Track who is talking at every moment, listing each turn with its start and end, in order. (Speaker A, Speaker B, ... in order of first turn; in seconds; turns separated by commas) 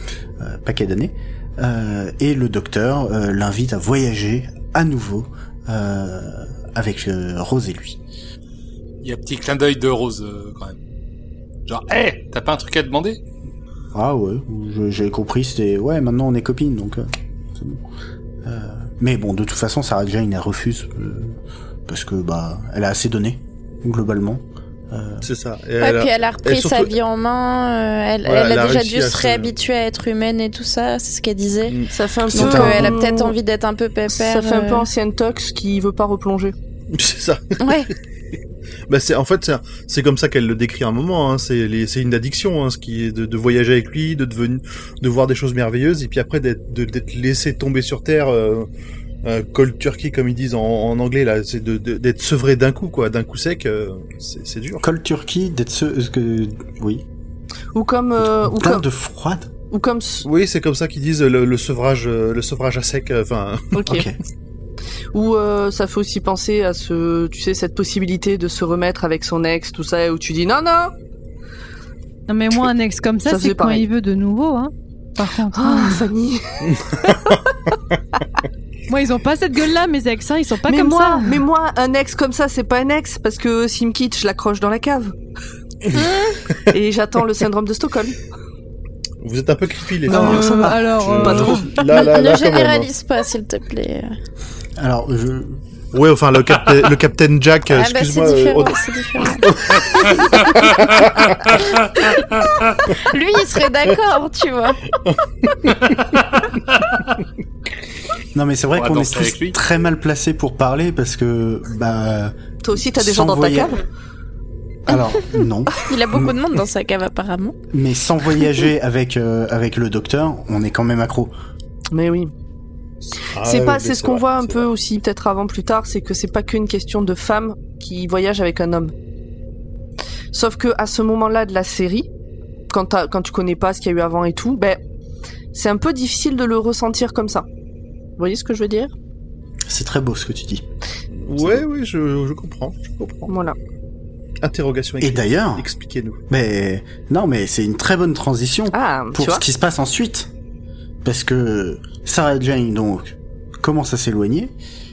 Speaker A: 0.4-8.0, Speaker B: 9.0-10.8, Speaker B: 11.7-13.2, Speaker A: 13.9-17.8, Speaker A: 18.4-25.2, Speaker C: 25.2-26.9, Speaker D: 25.8-34.9, Speaker C: 28.2-29.5, Speaker C: 31.7-32.9, Speaker E: 31.9-33.3, Speaker A: 32.4-32.8, Speaker E: 34.1-36.5, Speaker C: 36.9-37.8, Speaker D: 37.6-37.9, Speaker C: 38.9-48.7, Speaker C: 49.2-54.8, Speaker A: 54.8-57.0, Speaker E: 57.7-58.8, Speaker A: 58.2-59.5, Speaker E: 59.7-60.2, Speaker C: 60.2-63.8, Speaker E: 63.7-64.1, Speaker A: 63.9-64.2, Speaker E: 65.1-70.9, Speaker F: 72.3-76.0, Speaker E: 73.2-73.8, Speaker E: 75.5-77.4, Speaker C: 76.7-77.4, Speaker E: 78.1-78.4, Speaker F: 78.9-81.4, Speaker E: 80.7-85.1, Speaker D: 85.9-86.4, Speaker E: 86.7-88.2, Speaker C: 89.2-92.9, Speaker E: 90.1-91.7, Speaker F: 90.1-91.7, Speaker D: 91.8-94.1, Speaker A: 94.8-95.6, Speaker C: 95.9-101.6, Speaker D: 97.7-100.5, Speaker B: 102.0-102.6, Speaker D: 102.9-104.9, Speaker C: 105.0-106.0, Speaker B: 105.8-107.0, Speaker A: 108.3-113.8, Speaker B: 108.7-109.6, Speaker E: 112.6-113.8, Speaker A: 114.8-116.3, Speaker D: 115.8-117.5, Speaker A: 117.7-121.3, Speaker E: 121.9-122.3, Speaker C: 123.3-124.7, Speaker E: 123.4-128.9, Speaker E: 130.3-132.1, Speaker E: 132.7-134.8, Speaker E: 135.5-137.4, Speaker E: 138.2-138.9, Speaker A: 139.7-140.6, Speaker C: 141.2-143.3, Speaker E: 143.3-143.6, Speaker C: 144.4-146.2, Speaker A: 145.0-145.7, Speaker A: 146.3-150.3, Speaker E: 148.7-149.4, Speaker A: 151.0-154.5